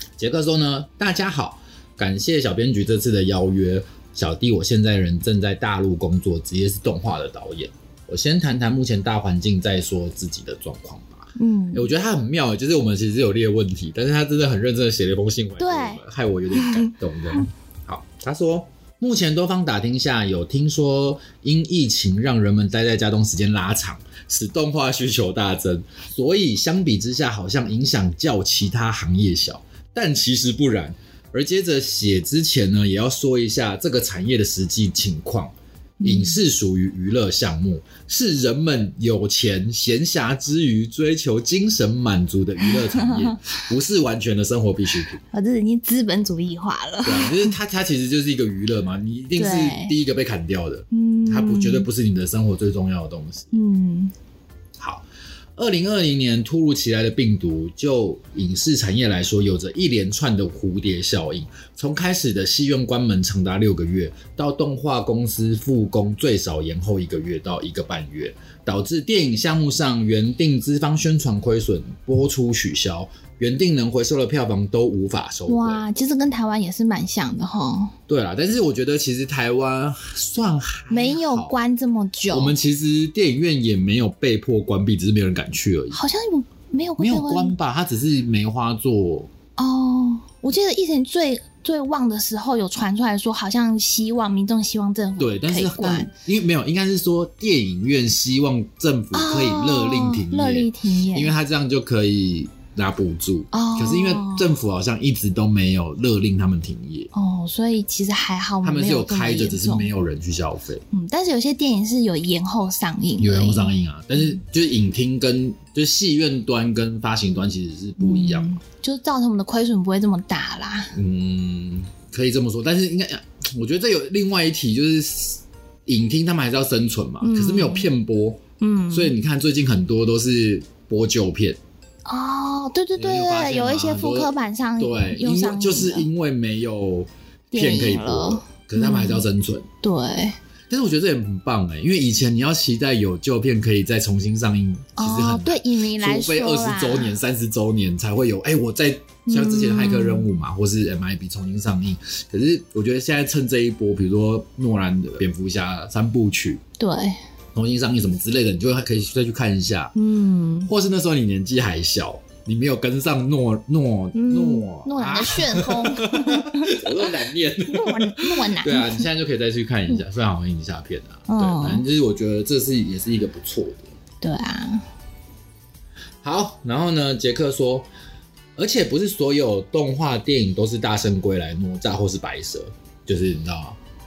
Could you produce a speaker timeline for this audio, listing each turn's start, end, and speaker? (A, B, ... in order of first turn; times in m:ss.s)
0:00.2-0:45.2 A
0:11.4-0:11.9 B
0:15.6-0:16.0 B
0:16.5-0:17.4 B
0:36.0-0:36.4 B
0:42.6-0:43.4 B
0:45.3-0:47.5 B
0:47.0-0:53.5 A
0:49.4-0:50.0 B
0:50.9-0:51.9 B
0:53.5-0:54.1 B
0:54.8-1:15.8 A
1:15.5-1:17.9 B
1:18.1-1:21.6 A
1:20.9-1:22.6 B
1:22.3-1:26.0 A
1:25.9-1:27.5 B
1:27.0-1:29.3 A
1:29.6-1:36.1 B
1:35.2-1:47.1 A
1:39.1-1:41.3 B
1:43.5-1:44.5 B
1:47.1-1:49.9 B
1:48.6-1:50.8 A
1:50.9-1:54.4 B
1:53.2-1:58.6 A
1:58.0-2:01.0 B
2:00.9-2:11.6 A
2:07.2-2:07.9 B
2:08.6-2:09.1 B
2:12.0-2:16.1 B
2:13.0-2:19.7 A
2:17.5-2:19.2 B
2:19.8-2:20.4 B
2:20.7-2:36.6 A
2:25.0-2:27.1 B
2:29.3-2:30.3 B
2:36.8-2:37.2 B
2:37.5-2:39.9 A
2:39.9-2:40.7 B
2:40.6-2:53.9 A
2:44.1-2:47.0 B
2:47.7-2:49.1 B
2:51.3-2:51.8 B
2:54.2-2:54.8 B
2:56.2-2:57.9 A
2:58.6-3:03.8 A